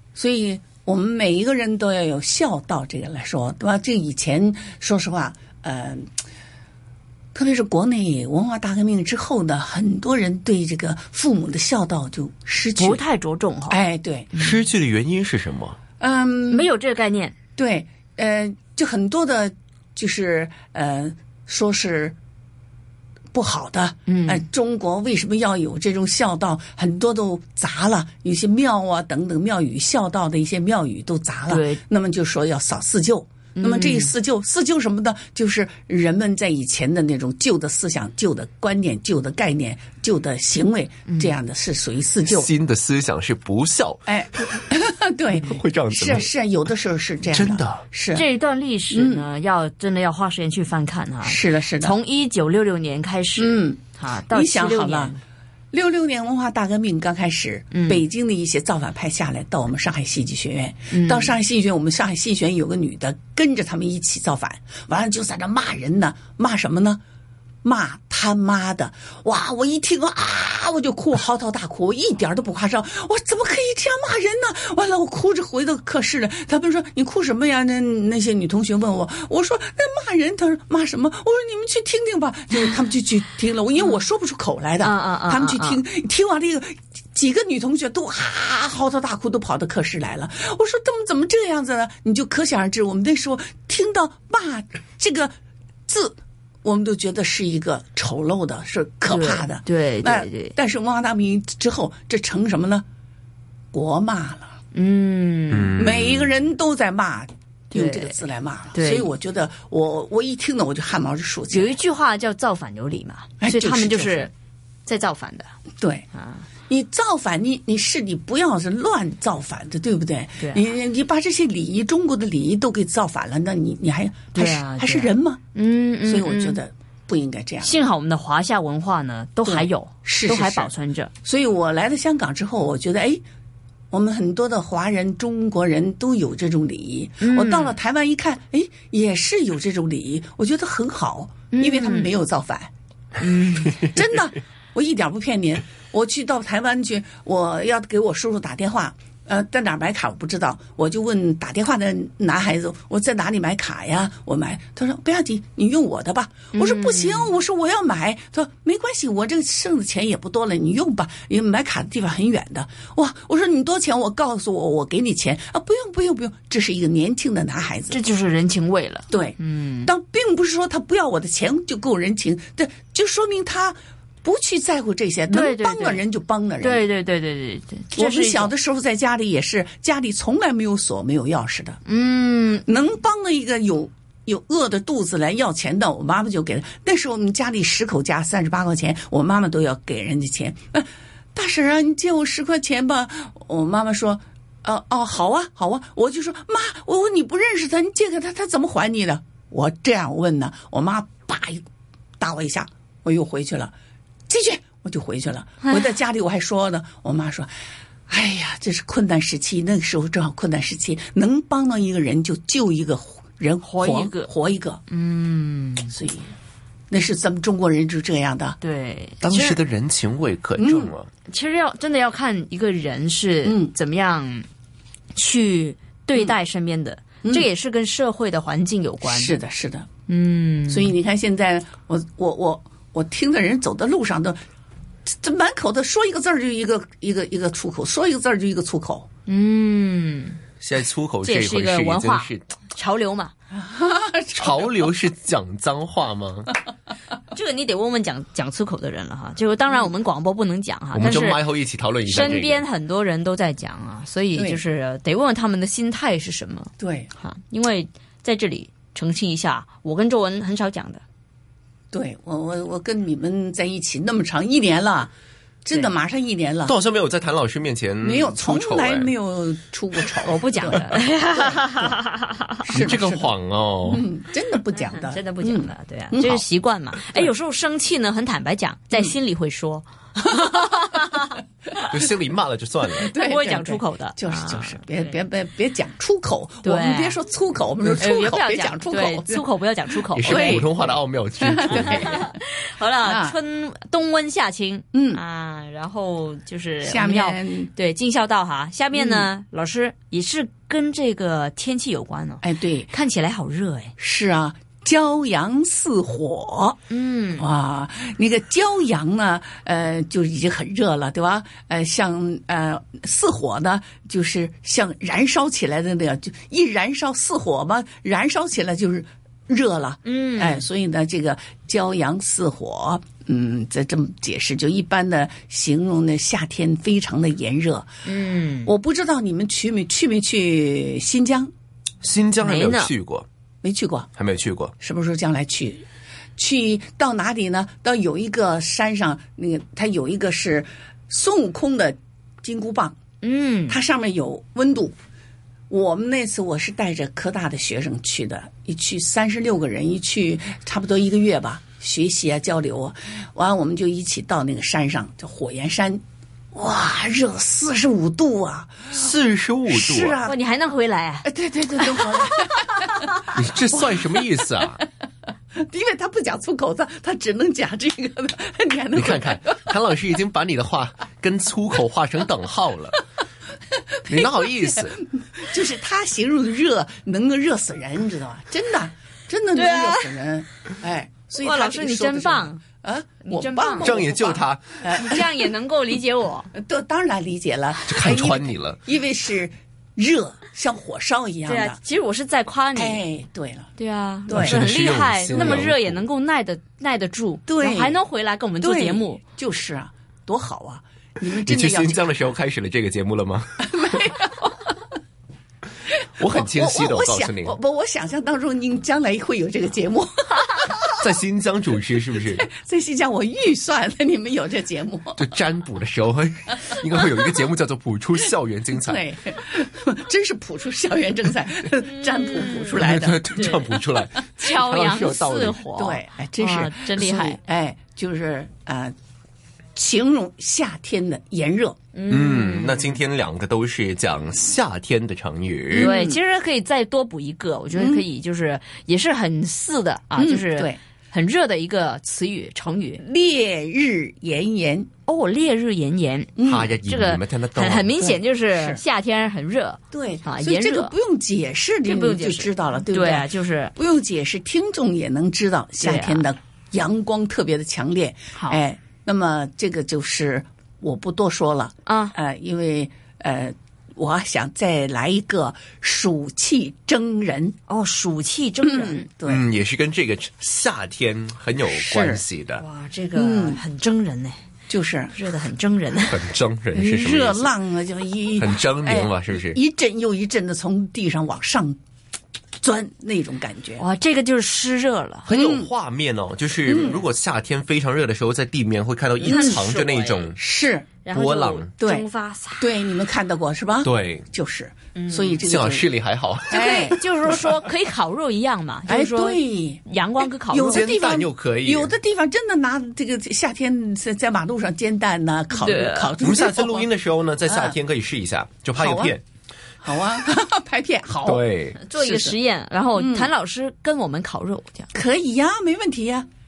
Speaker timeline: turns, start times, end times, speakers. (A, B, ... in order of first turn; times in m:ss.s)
0:00.2-0:06.1 A
0:07.4-0:13.0 A
0:12.8-0:13.8 B
0:13.7-0:14.3 A
0:14.3-0:14.6 B
0:14.4-0:15.8 C
0:16.0-0:16.7 A
0:16.5-0:17.3 B
0:17.6-0:22.2 A
0:23.3-0:42.5 A
0:24.1-0:24.4 B
0:31.5-0:31.8 B
0:33.6-0:34.1 B
0:41.1-0:41.4 B
0:42.3-0:44.1 C
0:44.1-0:48.3 A
0:45.4-0:46.3 C
0:47.3-0:47.8 C
0:48.1-0:55.2 B
0:48.9-0:49.2 A
0:51.2-0:51.9 A
0:53.4-0:55.1 A
0:55.7-1:07.0 A
0:57.7-0:58.1 B
1:00.9-1:01.4 B
1:07.6-1:35.3 A
1:24.8-1:25.8 B
1:35.9-1:42.8 A
1:39.1-1:40.6 B
1:43.7-1:44.6 A
1:44.7-1:46.0 B
1:45.5-1:46.3 C
1:45.8-1:51.8 A
1:47.7-1:49.1 B
1:51.5-1:54.3 B
1:53.4-1:54.3 A
1:54.9-1:55.5 B
1:55.8-1:56.1 A
1:56.1-1:56.5 B
1:56.7-2:05.4 A
2:04.3-2:06.6 B
2:06.0-2:07.8 A
2:07.6-2:11.1 B
2:09.4-2:10.7 A
2:11.2-2:13.2 A
2:13.9-2:22.7 A
2:17.2-2:17.8 B
2:21.5-2:22.1 B
2:23.2-2:23.8 B
2:23.8-2:48.0 A
2:36.5-2:37.3 B
2:47.9-2:49.9 B
2:49.1-2:56.8 A
2:55.3-2:56.0 B
2:56.6-2:58.5 B
2:57.9-3:01.8 A
3:01.9-3:02.6 B
3:02.7-3:21.6 A
3:22.2-3:23.7 A
3:24.3-3:27.5 A
3:25.6-3:25.9 B
3:28.1-3:34.8 A
3:33.6-3:34.3 B
3:34.9-3:35.9 B
3:35.9-3:36.4 A
3:36.9-3:38.6 A
3:38.6-3:39.6 B
3:39.2-3:41.1 C
3:40.6-3:40.8 A
3:41.3-3:44.5 B
3:43.4-3:43.7 A
3:45.2-3:49.4 B
3:49.0-3:49.9 A
3:50.1-3:50.9 B
3:50.7-3:54.4 A
3:55.1-3:59.1 A
3:59.3-4:00.4 B
4:00.6-4:02.5 C
4:01.2-4:03.3 B
4:03.5-4:04.9 A
4:04.4-4:06.5 C
4:07.3-4:11.5 B
4:10.9-4:12.7 C
4:12.1-4:21.0 B
4:14.4-4:14.6 A
4:16.8-4:17.1 A
4:21.9-4:25.1 A
4:25.6-4:26.7 A
4:26.6-4:29.1 C
4:28.0-4:32.0 A
4:30.2-4:32.6 B
4:32.6-4:33.3 A
4:32.7-4:34.0 C
4:33.9-4:36.4 A
4:34.8-4:41.9 B
4:40.4-4:40.9 A
4:41.9-4:43.1 C
4:43.0-4:45.1 B
4:43.1-4:49.5 A
4:46.6-4:47.2 B
4:47.8-4:50.7 B
4:50.2-4:52.3 C
4:50.3-4:50.7 A
4:51.4-4:52.1 A
4:51.7-5:03.9 B
4:53.0-4:53.4 A
4:54.9-4:55.2 A
4:56.8-4:57.7 A
4:58.9-4:59.3 A
5:02.4-5:02.9 A
5:04.0-5:06.8 A
5:06.9-5:07.5 B
5:07.4-5:27.9 A
5:20.0-5:20.6 B
5:28.0-5:28.7 B
5:28.6-5:31.5 A
5:32.0-5:33.3 C
5:32.4-5:32.9 B
5:33.6-5:34.1 A
5:34.2-5:34.7 C
5:34.8-5:35.8 A
5:36.4-5:43.0 A
5:43.2-5:43.8 B
5:43.7-5:45.0 A
5:45.7-5:56.0 A
5:56.5-5:58.9 A
5:58.9-6:00.2 C
5:59.7-6:00.4 A
6:00.2-6:02.3 B
6:01.2-6:04.8 A
6:03.3-6:04.8 C
6:05.6-6:09.7 A
6:08.9-6:13.0 C
6:14.1-6:15.0 C
6:14.9-6:25.5 A
6:19.6-6:20.2 B
6:21.4-6:22.6 B
6:23.2-6:24.0 B
6:23.8-6:24.6 C
6:24.9-6:26.5 B
6:26.5-6:31.8 A
6:27.9-6:28.8 C
6:31.5-6:33.0 B
6:32.8-6:33.7 A
6:33.8-6:39.2 B
6:34.3-6:34.6 A
6:34.3-6:36.0 C
6:37.5-6:38.0 A
6:38.6-6:42.1 A
6:41.4-6:44.0 C
6:43.7-6:44.8 A
6:46.2-6:47.6 C
6:46.3-6:51.1 A
6:51.0-6:52.5 C
6:52.2-6:55.2 A
6:55.2-6:59.0 C
6:58.8-7:03.2 A
7:01.8-7:02.8 B
7:02.7-7:05.6 C
7:03.4-7:03.6 B
7:04.4-7:07.4 B
7:05.8-7:09.0 A
7:09.8-7:11.8 A
7:11.9-7:13.0 B
7:12.1-7:15.9 C
7:15.7-7:16.2 A
7:15.7-7:23.0 B
7:17.7-7:18.0 A
7:20.2-7:20.8 A
7:23.0-7:24.9 A
7:25.1-7:31.0 B
7:26.4-7:26.7 A
7:26.4-7:27.9 C
7:27.9-7:28.8 A
7:29.9-7:47.6 A
7:31.8-7:33.7 B
7:35.8-7:36.3 B
7:38.3-7:38.6 B
7:41.9-7:42.2 B
7:47.7-7:49.1 B
7:48.6-7:49.4 A
7:49.2-7:52.6 C
7:51.8-7:52.2 A
7:52.6-7:54.4 B
7:53.1-7:53.6 A
7:54.7-7:55.2 A
7:55.1-7:56.2 B
7:56.1-7:57.5 C
7:56.7-8:01.8 A
7:58.4-7:59.6 C
8:02.6-8:03.8 A
8:03.8-8:05.3 B
8:05.3-8:10.4 C
8:05.3-8:05.7 A
8:06.7-8:07.0 A
8:09.2-8:10.3 B
8:10.4-8:10.9 A
8:11.0-8:12.7 B
8:11.1-8:11.7 C
8:11.8-8:12.1 A
8:12.6-8:15.9 A
8:13.8-8:14.3 C
8:15.0-8:15.4 B
8:15.4-8:17.5 C
8:16.5-8:17.0 A
8:16.5-8:20.9 B
8:18.9-8:19.8 A
8:20.5-8:26.9 A
8:20.6-8:21.9 C
8:25.5-8:26.2 B
8:26.2-8:29.2 C
8:28.8-8:29.2 A
8:29.8-8:32.4 A
8:31.2-8:31.8 C
8:31.8-8:34.9 B
8:33.0-8:33.3 A
8:34.9-8:36.3 A